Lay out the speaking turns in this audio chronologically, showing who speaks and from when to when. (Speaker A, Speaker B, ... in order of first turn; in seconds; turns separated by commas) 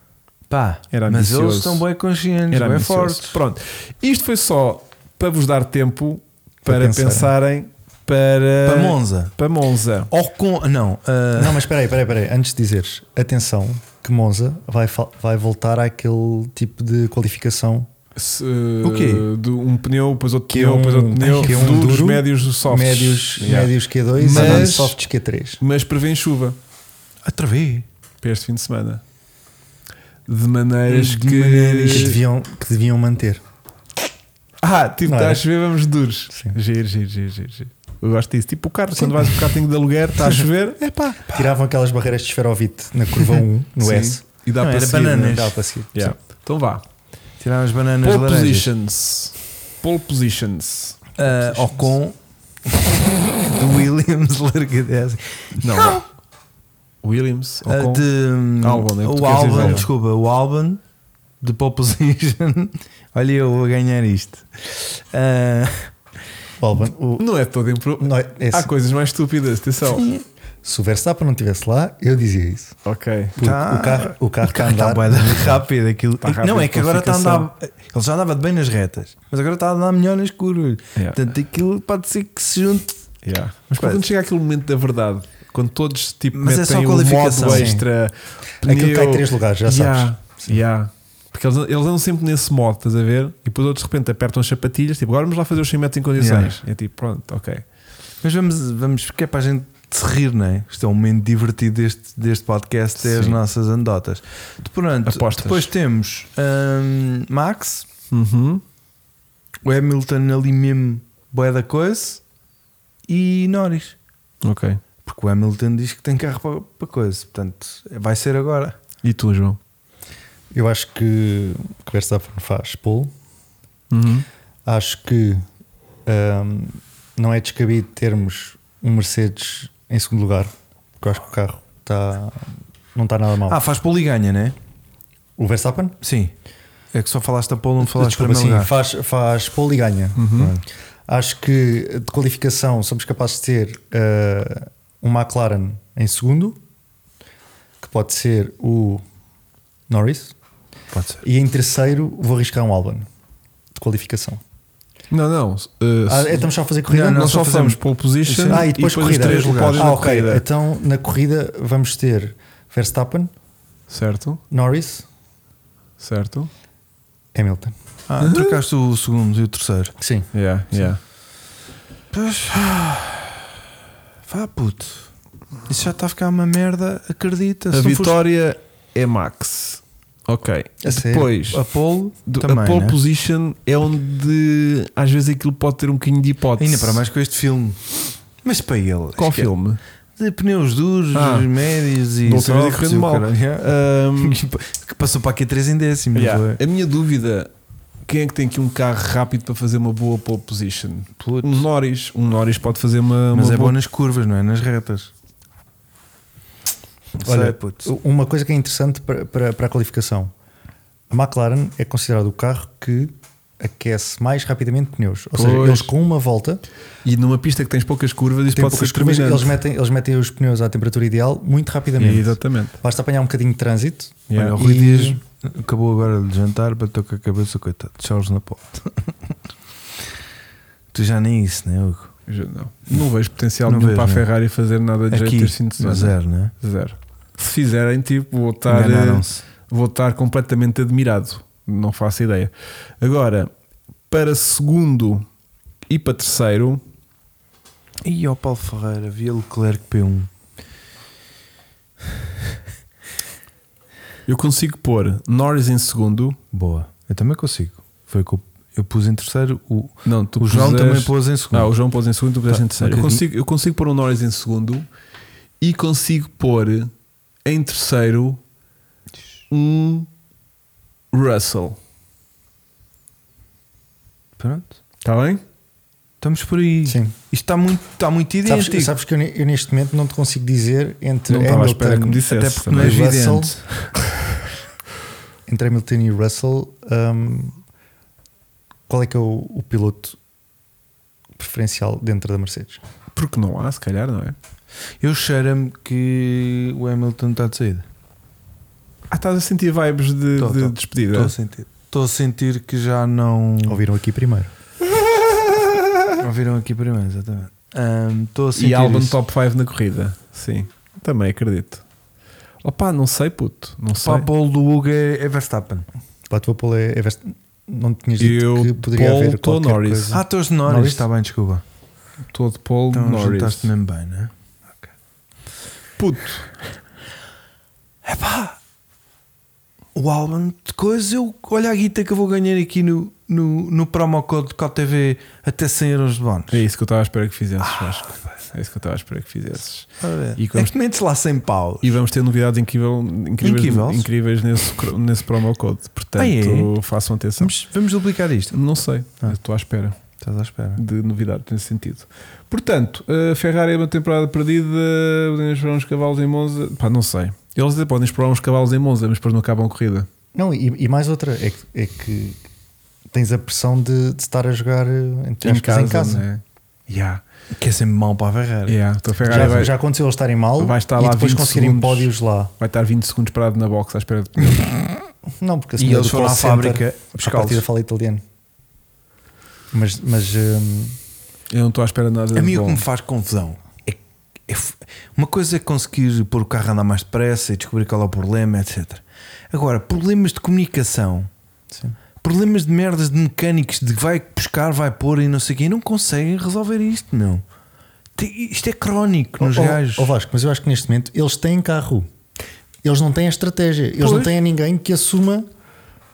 Speaker A: 0.5-3.4, Speaker B: 0.9-1.8, Speaker B: 2.5-10.1, Speaker C: 6.6-7.3, Speaker A: 8.7-9.3, Speaker A: 10.1-11.7, Speaker C: 11.4-17.9, Speaker B: 18.2-25.0, Speaker A: 18.8-19.3, Speaker C: 20.5-25.6, Speaker A: 21.4-22.0, Speaker A: 24.3-24.7, Speaker B: 25.6-26.6, Speaker A: 27.2-27.9, Speaker B: 28.2-29.0, Speaker B: 30.3-32.2, Speaker A: 30.9-32.2, Speaker C: 31.9-33.4, Speaker B: 34.6-40.8, Speaker C: 35.0-35.5, Speaker C: 38.9-39.3, Speaker C: 40.8-44.2, Speaker B: 43.8-45.4, Speaker A: 44.6-45.6, Speaker C: 45.1-46.1, Speaker B: 45.9-46.8, Speaker A: 47.4-48.7, Speaker B: 48.0-51.9, Speaker A: 51.2-56.0, Speaker B: 55.6-56.0, Speaker B: 57.0-58.1, Speaker A: 57.7-60.8, Speaker B: 58.6-59.9, Speaker C: 59.5-59.9, Speaker A: 61.4-65.9, Speaker C: 66.6-67.3, Speaker B: 67.2-70.0, Speaker C: 68.0-68.7, Speaker A: 69.9-70.2, Speaker C: 70.6-72.8, Speaker B: 72.8-73.4, Speaker C: 73.4-75.6, Speaker A: 73.4-83.0, Speaker B: 76.2-77.5, Speaker B: 81.0-81.2, Speaker B: 83.2-97.6, Speaker A: 83.8-84.0, Speaker A: 86.3-87.8, Speaker C: 87.5-87.8, Speaker C: 88.6-90.6, Speaker A: 96.2-96.5, Speaker A: 98.2-107.9, Speaker B: 103.0-103.4, Speaker B: 105.1-105.7, Speaker B: 108.1-108.6, Speaker A: 109.7-112.2, Speaker A: 113.1-114.0, Speaker B: 114.4-114.8, Speaker A: 115.0-118.8, Speaker B: 119.0-119.6, Speaker C: 120.5-123.1, Speaker B: 123.9-124.3, Speaker C: 124.7-125.5, Speaker C: 126.1-133.6, Speaker A: 133.5-134.6, Speaker C: 135.4-136.0, Speaker A: 136.0-136.3, Speaker A: 136.9-138.7, Speaker C: 137.8-140.3, Speaker B: 140.2-140.5, Speaker A: 140.4-140.6, Speaker C: 141.1-146.6, Speaker C: 147.8-149.0, Speaker C: 149.9-150.3, Speaker A: 150.9-151.2, Speaker C: 151.2-153.1, Speaker C: 153.7-154.4, Speaker B: 155.1-156.5, Speaker C: 156.1-157.3, Speaker A: 156.9-159.9, Speaker B: 157.1-160.4, Speaker C: 158.5-163.3, Speaker B: 163.9-164.4, Speaker C: 164.5-165.1, Speaker B: 166.0-166.5, Speaker C: 167.3-167.7, Speaker A: 168.1-169.9, Speaker B: 168.2-168.6, Speaker C: 170.0-170.3, Speaker B: 170.3-171.0, Speaker A: 172.1-173.4, Speaker A: 174.3-175.1, Speaker A: 175.7-178.2, Speaker B: 177.7-181.6, Speaker C: 180.8-181.3, Speaker A: 181.5-183.0, Speaker B: 182.3-187.0, Speaker A: 186.6-187.9, Speaker A: 188.4-189.5, Speaker B: 189.2-189.8, Speaker A: 190.2-196.6, Speaker B: 191.1-191.5, Speaker B: 192.2-194.4, Speaker B: 196.2-197.5, Speaker B: 198.1-203.8, Speaker A: 201.2-201.7, Speaker A: 203.3-205.1, Speaker A: 207.2-207.9, Speaker C: 207.2-210.3, Speaker C: 211.1-216.6, Speaker B: 215.3-215.9, Speaker B: 217.0-219.6, Speaker C: 218.5-225.2, Speaker B: 222.0-222.8, Speaker B: 224.3-224.6, Speaker A: 224.3-229.3, Speaker A: 230.9-232.1, Speaker B: 232.3-243.5, Speaker A: 233.7-234.3, Speaker A: 235.1-236.5, Speaker A: 238.7-239.4, Speaker B: 244.1-245.3, Speaker B: 245.9-246.8, Speaker A: 248.0-250.3, Speaker B: 254.3-256.4, Speaker A: 256.5-261.7, Speaker B: 260.1-264.9, Speaker A: 262.5-263.2, Speaker B: 265.6-266.9, Speaker B: 267.4-268.4, Speaker B: 269.5-270.1, Speaker B: 271.1-271.8, Speaker A: 274.4-274.8, Speaker B: 275.0-275.4, Speaker A: 276.2-278.9, Speaker C: 276.9-277.1, Speaker C: 278.4-283.5, Speaker B: 281.3-283.0, Speaker A: 282.3-283.9, Speaker C: 285.5-287.6, Speaker C: 288.9-290.2, Speaker C: 291.4-292.8, Speaker B: 293.1-294.4, Speaker A: 295.0-297.9, Speaker B: 299.1-301.3, Speaker A: 300.4-303.8, Speaker C: 303.7-304.5, Speaker A: 306.2-309.2, Speaker B: 308.6-311.8, Speaker B: 312.6-314.3, Speaker A: 314.0-315.9, Speaker C: 316.3-321.1, Speaker B: 318.2-320.2, Speaker A: 320.1-321.6, Speaker B: 322.3-323.7, Speaker A: 322.9-324.9, Speaker B: 326.0-326.5, Speaker A: 328.0-328.6, Speaker A: 329.9-336.6, Speaker B: 336.5-340.7, Speaker A: 337.6-338.3, Speaker A: 340.0-342.0, Speaker B: 341.8-347.5, Speaker A: 343.4-344.1, Speaker A: 346.2-346.7, Speaker A: 347.4-348.6, Speaker B: 348.5-350.0, Speaker A: 350.2-350.8, Speaker B: 350.8-360.1, Speaker C: 360.3-362.4, Speaker C: 363.1-366.2, Speaker B: 365.4-367.2, Speaker A: 367.5-369.6, Speaker B: 368.7-369.7, Speaker C: 369.3-372.5, Speaker B: 370.6-374.8, Speaker C: 375.4-378.2, Speaker A: 375.8-377.6, Speaker C: 379.7-381.0, Speaker B: 381.5-382.8, Speaker A: 382.3-391.3, Speaker A: 392.2-397.4, Speaker A: 398.2-400.1, Speaker C: 399.4-402.1, Speaker C: 402.8-405.5, Speaker B: 404.0-404.3